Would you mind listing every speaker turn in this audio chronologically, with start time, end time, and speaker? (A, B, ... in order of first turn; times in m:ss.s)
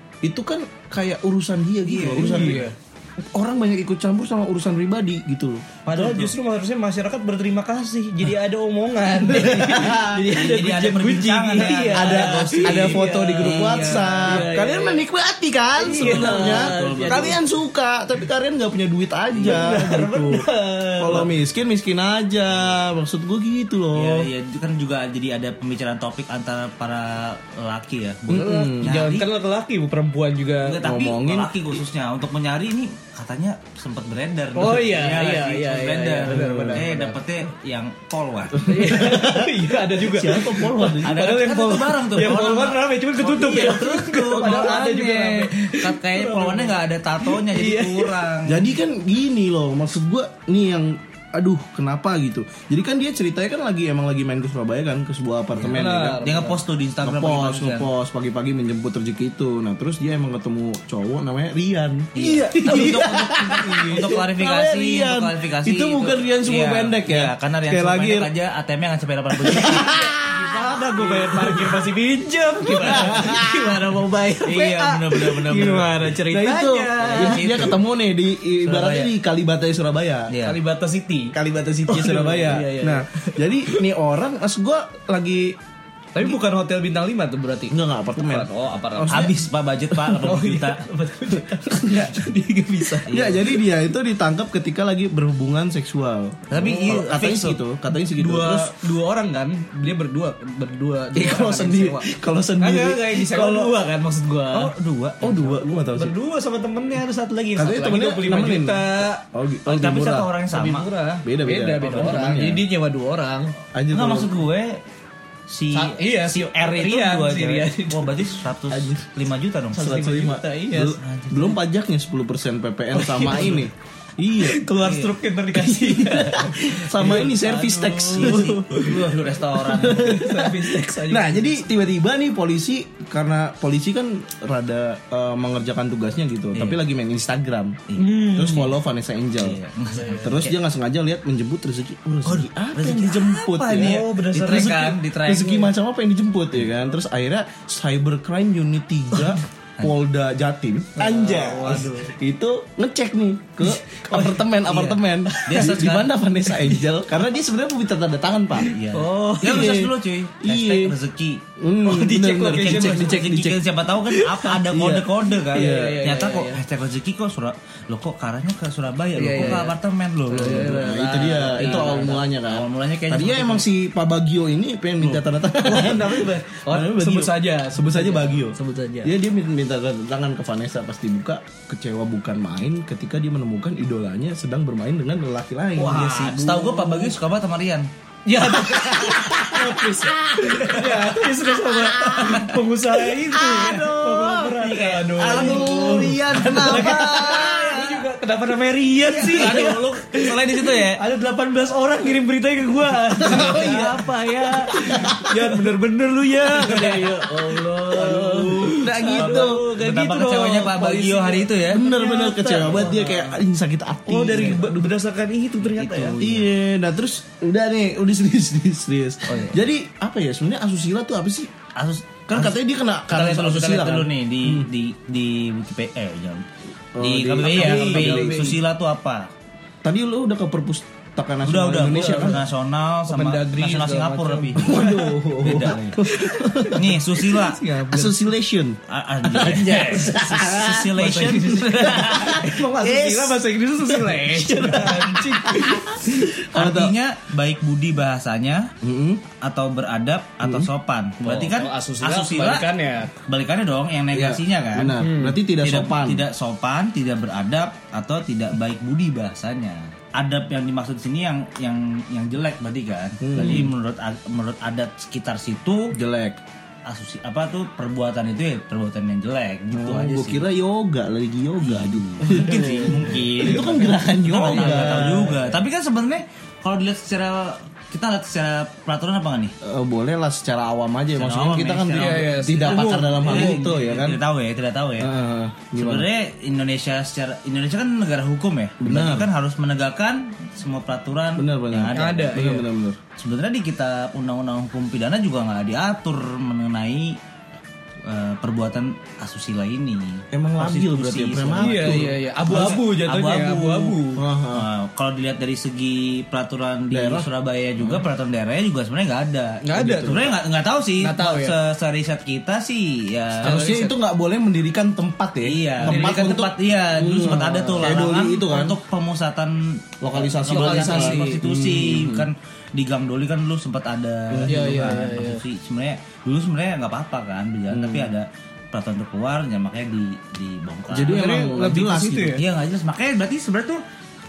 0:00.2-0:02.6 A
0:01.8-0:02.6 B
0:02.1-0:02.8 C
0:03.2-0:05.9 A
0:05.9-0:15.0 C
0:05.9-0:06.3 B
0:09.3-0:10.2 A
0:10.3-0:14.5 B
0:11.9-0:20.4 A
0:15.8-0:17.4 C
0:15.8-0:17.4 B
0:19.3-0:19.7 B
0:19.4-0:21.3 C
0:21.0-0:24.3 A
0:23.9-0:29.3 B
0:28.3-0:29.0 A
0:28.3-0:30.8 C
0:30.6-0:38.8 B
0:30.8-0:31.6 A
0:34.6-0:37.2 C
0:36.3-0:36.8 A
0:38.6-0:41.2 A
0:38.6-0:48.2 C
0:41.0-0:48.8 B
0:44.2-0:44.8 A
0:48.5-0:56.2 A
0:55.6-0:57.9 B
0:55.7-0:56.6 C
0:57.0-1:08.3 A
1:02.2-1:10.0 B
1:02.2-1:04.2 C
1:09.4-1:11.8 A
1:09.6-1:17.8 C
1:12.8-1:13.6 A
1:12.8-1:13.1 B
1:14.4-1:16.1 B
1:16.3-1:20.3 A
1:17.0-1:17.8 B
1:18.6-1:19.1 C
1:20.3-1:20.6 B
1:20.4-1:21.4 C
1:21.3-1:25.6 A
1:21.9-1:23.9 C
1:26.1-1:29.4 C
1:27.7-1:29.4 A
1:29.1-1:30.9 B
1:30.0-1:33.6 C
1:31.7-1:32.1 A
1:33.1-1:33.4 B
1:33.1-1:38.8 A
1:36.5-1:37.6 B
1:38.0-1:44.7 C
1:41.1-1:43.7 A
1:44.5-1:45.6 B
1:45.2-1:46.2 A
1:45.9-1:53.6 C
1:47.6-1:50.0 A
1:49.7-1:50.9 B
1:51.2-1:52.6 A
1:53.8-1:54.4 A
1:53.9-1:54.8 B
1:55.5-1:59.9 B
1:55.7-1:58.9 C
1:59.7-2:01.0 C
1:59.8-2:04.6 A
2:01.0-2:01.6 B
2:02.9-2:03.7 C
2:04.4-2:11.6 C
2:04.8-2:05.2 B
2:05.6-2:08.8 A
2:08.1-2:10.2 B
2:09.7-2:19.6 A
2:16.6-2:16.8 B
2:17.9-2:18.7 B
2:18.0-2:18.7 C
2:19.4-2:20.6 B
2:19.9-2:20.5 C
2:20.2-2:24.0 A
2:22.2-2:25.7 B
2:23.7-2:25.0 C
2:25.2-2:38.7 A
2:31.0-2:32.1 C
2:33.6-2:34.3 C
2:34.2-2:36.1 B
2:35.3-2:35.9 C
2:38.6-2:41.4 B
2:38.7-2:39.8 C
2:39.4-2:41.0 A
2:41.6-2:43.6 A
2:41.8-2:44.6 C
2:42.5-2:53.7 B
2:44.7-2:46.0 A
2:45.3-2:46.6 C
2:49.2-2:52.2 C
2:49.4-2:49.6 A
2:50.4-3:07.1 A
2:55.6-2:59.1 C
3:05.8-3:07.1 C
3:05.8-3:07.9 B
3:08.3-3:33.4 C
3:08.7-3:09.5 B
3:08.7-3:09.6 A
3:10.3-3:10.8 A
3:10.6-3:11.2 B
3:12.0-3:12.4 A
3:12.1-3:12.6 B
3:13.3-3:14.5 A
3:14.3-3:18.0 B
3:15.2-3:17.8 A
3:19.1-3:21.0 B
3:23.2-3:24.0 A
3:23.2-3:25.1 B
3:24.7-3:25.5 A
3:27.6-3:29.6 A
3:29.1-3:31.9 B
3:31.7-3:34.8 A
3:34.1-3:36.2 C
3:34.3-3:34.6 B
3:35.6-3:36.5 B
3:36.2-3:41.5 A
3:41.8-3:46.5 B
3:42.3-3:44.7 A
3:47.0-3:48.6 A
3:47.0-3:49.3 B
3:47.4-3:48.6 C
3:49.8-3:52.4 A
3:51.4-3:56.0 B
3:51.8-3:52.5 C
3:53.1-3:55.2 C
3:54.6-3:57.0 A
3:55.7-3:58.3 C
3:56.7-3:57.6 B
3:57.9-4:06.9 A
3:58.9-4:02.5 B
3:59.5-4:06.2 C
4:06.5-4:08.7 B
4:08.8-4:09.2 A
4:09.3-4:12.7 B
4:10.4-4:10.7 A
4:11.2-4:13.2 C
4:13.3-4:15.0 B
4:14.1-4:16.2 A
4:15.0-4:15.4 C
4:15.6-4:26.0 B
4:23.2-4:23.7 A
4:25.9-4:26.4 A
4:26.8-4:30.5 B
4:29.7-4:35.5 A
4:31.6-4:39.5 B
4:32.4-4:33.8 C
4:34.3-4:35.5 C
4:39.6-4:44.2 A
4:41.2-4:45.1 B
4:41.9-4:43.8 C
4:45.0-4:46.1 A
4:45.8-4:52.4 B
4:48.8-4:49.3 A
4:51.4-4:53.0 A
4:51.9-4:52.7 C
4:53.2-4:57.2 B
4:58.0-5:04.0 B
5:00.3-5:02.8 A
5:01.6-5:04.2 C
5:04.2-5:04.7 A
5:04.5-5:13.8 B
5:06.9-5:07.3 A
5:09.6-5:10.4 C
5:09.8-5:10.3 A
5:11.0-5:11.6 C
5:13.4-5:14.0 C
5:13.4-5:18.8 A
5:15.4-5:31.4 B
5:15.8-5:16.3 C
5:17.0-5:17.9 C
5:20.0-5:22.3 A
5:20.4-5:21.4 C
5:24.3-5:24.7 A
5:24.5-5:25.4 C
5:27.7-5:28.1 A
5:30.9-5:32.4 A
5:31.0-5:32.4 C
5:32.4-5:33.8 B